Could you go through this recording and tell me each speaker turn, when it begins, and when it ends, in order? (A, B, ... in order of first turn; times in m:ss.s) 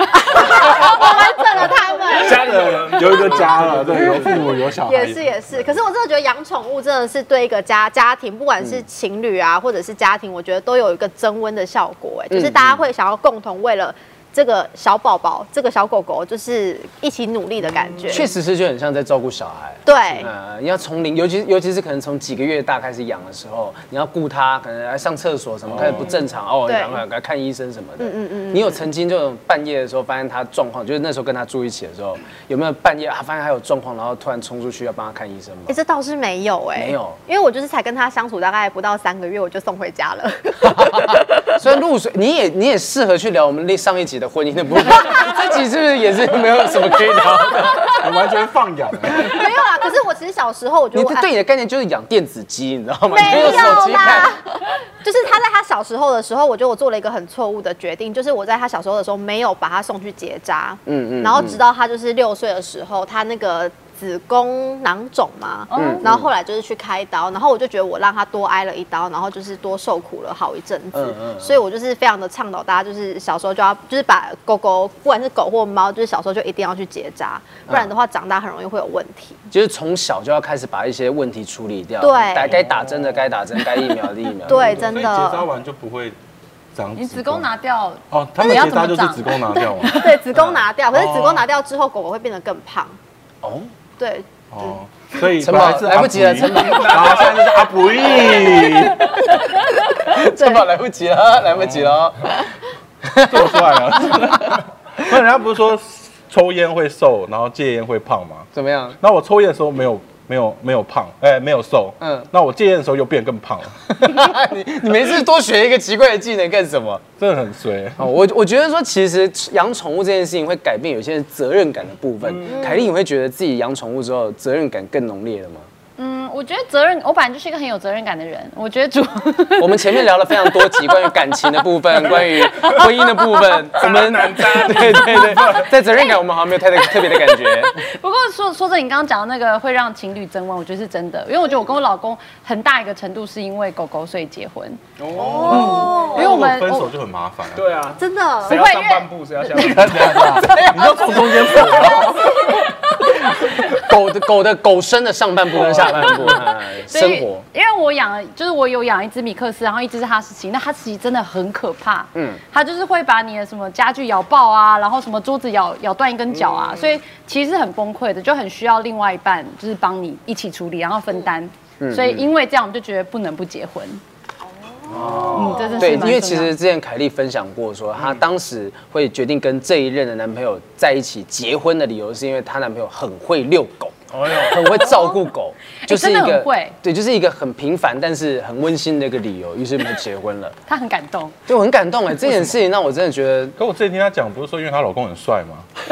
0:00.1-0:02.8 A
0:00.4-0:05.7 B
0:02.1-0:04.4 C
0:04.8-0:18.3 A
0:12.3-0:12.8 D
0:18.1-0:35.8 D
0:19.8-0:20.3 A
0:25.7-0:26.0 B
0:26.7-0:27.0 A
0:28.0-0:28.8 A
0:35.7-0:41.0 A
0:36.8-0:37.2 D
0:40.6-0:48.0 D
0:47.9-0:49.4 B
0:49.1-0:51.3 A
0:50.9-0:54.4 D
0:53.1-1:19.4 A
1:00.8-1:01.6 D
1:05.7-1:06.0 E
1:05.7-1:06.3 D
1:10.9-1:11.6 D
1:19.5-1:24.9 D
1:22.0-1:22.6 A
1:22.4-1:23.2 B
1:24.4-1:25.4 A
1:24.6-1:26.2 B
1:26.7-1:27.5 B
1:27.0-1:30.2 E
1:28.1-1:30.1 B
1:29.5-1:33.0 A
1:30.3-1:30.6 D
1:30.9-1:31.4 B
1:33.4-1:33.7 D
1:34.0-1:34.8 A
1:34.5-1:39.2 B
1:35.4-1:37.3 D
1:36.9-1:37.4 C
1:38.4-1:42.5 D
1:41.5-1:41.9 B
1:43.0-1:44.6 D
1:43.2-1:48.5 B
1:48.5-1:49.0 D
1:49.0-1:53.8 B
1:52.0-1:52.3 D
1:53.9-1:57.0 D
1:57.2-1:58.0 B
1:58.0-2:05.7 D
2:02.4-2:02.8 A
2:06.0-2:11.0 E
2:09.6-2:17.8 D
2:13.7-2:15.7 C
2:17.0-2:24.8 E
2:25.0-2:26.0 C
2:25.1-2:26.5 A
2:25.4-2:26.9 E
2:25.5-2:27.6 B
2:27.5-2:30.3 C
2:28.0-2:28.6 A
2:28.4-2:29.9 E
2:29.5-2:32.6 B
2:30.4-2:31.6 D
2:33.3-2:37.4 D
2:35.7-2:36.3 C
2:36.0-2:54.0 E
2:42.1-2:42.4 D
2:51.8-2:52.3 D
2:54.8-2:56.1 A
2:54.9-3:10.6 D
2:55.3-2:56.5 E
3:04.1-3:04.8 C
3:04.9-3:05.2 E
3:05.8-3:06.8 E
3:10.7-3:11.3 E
3:11.5-3:13.6 D
3:13.6-3:15.7 B